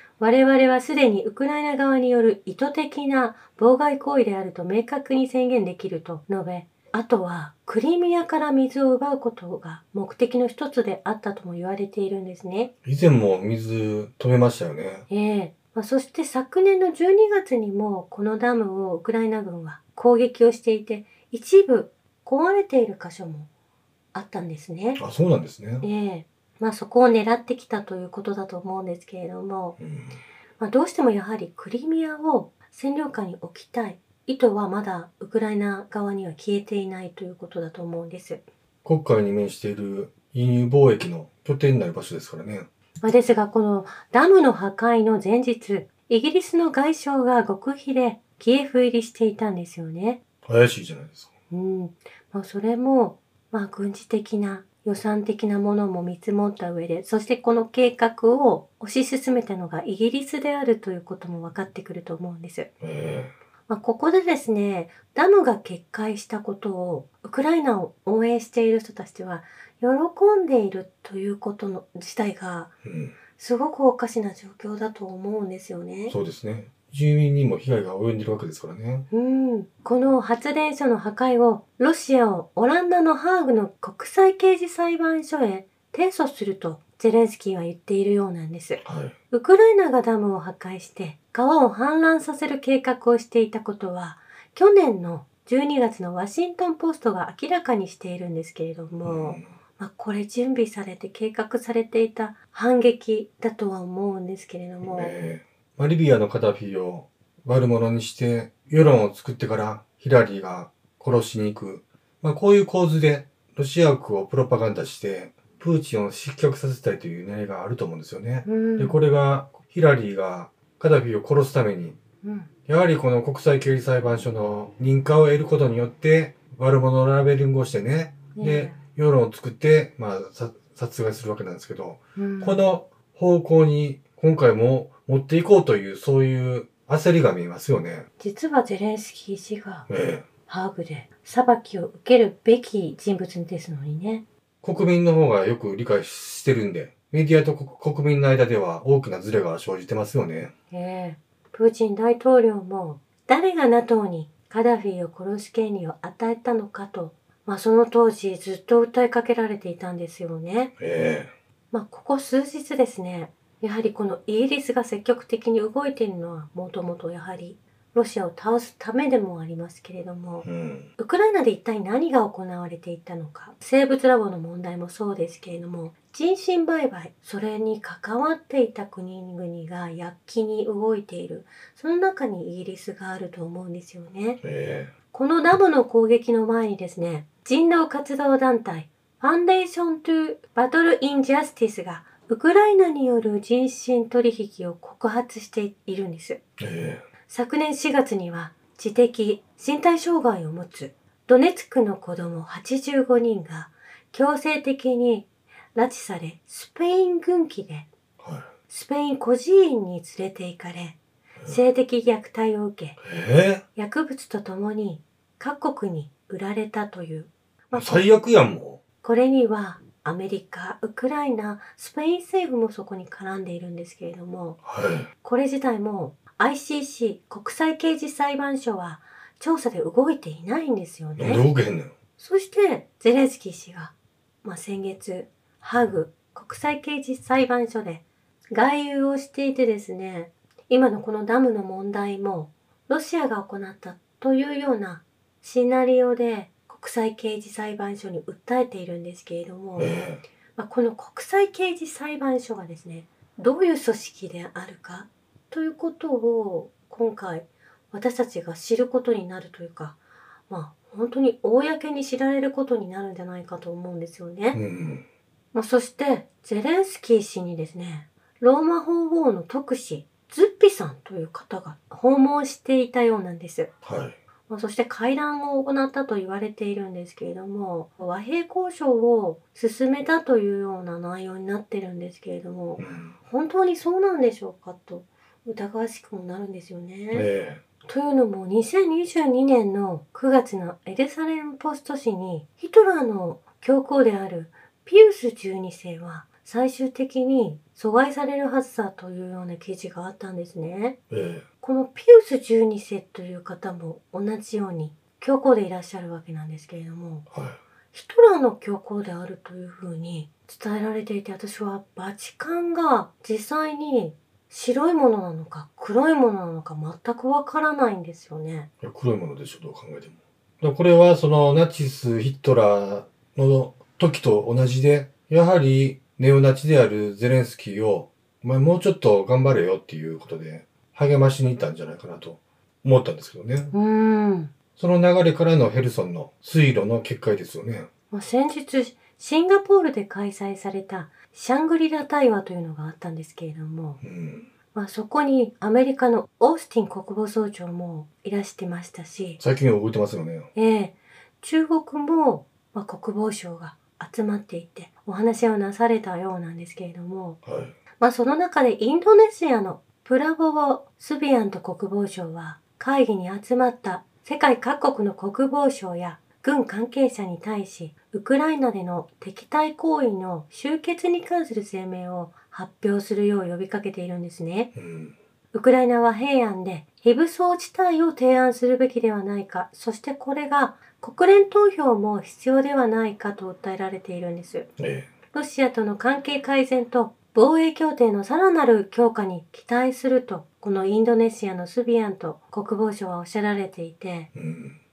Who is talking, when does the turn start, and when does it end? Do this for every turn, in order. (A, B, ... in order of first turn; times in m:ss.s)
0:00.2-0:12.7 A
0:12.8-0:15.1 B
0:15.1-0:23.5 A
0:24.1-0:25.0 A
0:25.0-0:25.9 B
0:25.8-0:29.8 A
0:29.8-0:30.2 B
0:30.6-0:38.4 A
0:38.8-0:42.7 B
0:43.0-0:50.2 A
0:50.4-0:51.3 B
0:51.5-1:02.7 A
1:02.8-1:03.3 B
1:03.7-1:12.7 A
1:12.8-1:13.2 B
1:13.4-1:16.2 A
1:16.1-1:19.1 B
1:19.1-1:45.2 A
1:28.8-1:29.2 B
1:39.0-1:39.5 B
1:44.8-2:02.0 B
1:58.4-1:59.0 A
2:02.2-2:02.5 A
2:02.7-2:18.1 B
2:08.4-2:08.8 A
2:12.2-2:12.6 A
2:18.2-2:19.9 A
2:19.9-2:20.3 B
2:20.5-2:24.2 A
2:24.6-2:30.5 B
2:30.7-2:40.7 A
2:40.8-2:41.3 B
2:41.7-2:50.5 A
2:50.4-2:50.9 B
2:51.0-3:04.4 A
3:04.4-3:04.9 B
3:05.1-3:16.4 A
3:16.6-3:17.1 B
3:17.3-3:27.9 A
3:28.2-3:28.5 B
3:28.7-3:33.0 A
3:33.0-3:33.6 B
3:33.8-3:38.1 A
3:37.7-3:38.8 B
3:39.0-3:44.6 A
3:44.6-3:45.1 B
3:45.2-3:51.4 A
3:51.2-3:51.9 B
3:52.2-4:20.0 A
4:09.8-4:10.2 B
4:20.5-4:24.6 A
4:24.5-4:25.0 B
4:25.5-4:33.7 A
4:33.8-4:34.2 B
4:34.5-4:47.3 A
4:42.8-4:43.2 B
4:47.1-4:47.6 B
4:47.9-5:01.0 A
5:01.1-5:01.4 B
5:01.6-5:07.3 A
5:07.3-5:07.6 B
5:07.9-5:18.7 A
5:18.8-5:33.7 B
5:33.7-5:34.5 A
5:34.8-5:37.9 B
5:38.1-5:44.0 A
5:44.0-5:44.5 B
5:44.7-5:49.4 A
5:49.4-5:50.5 B
5:50.6-5:57.4 A
5:57.4-5:57.8 B
5:58.0-6:14.7 A
6:14.8-6:15.1 B
6:15.5-6:24.7 A
6:24.8-6:25.1 B
6:25.3-6:34.3 A
6:34.3-6:34.8 B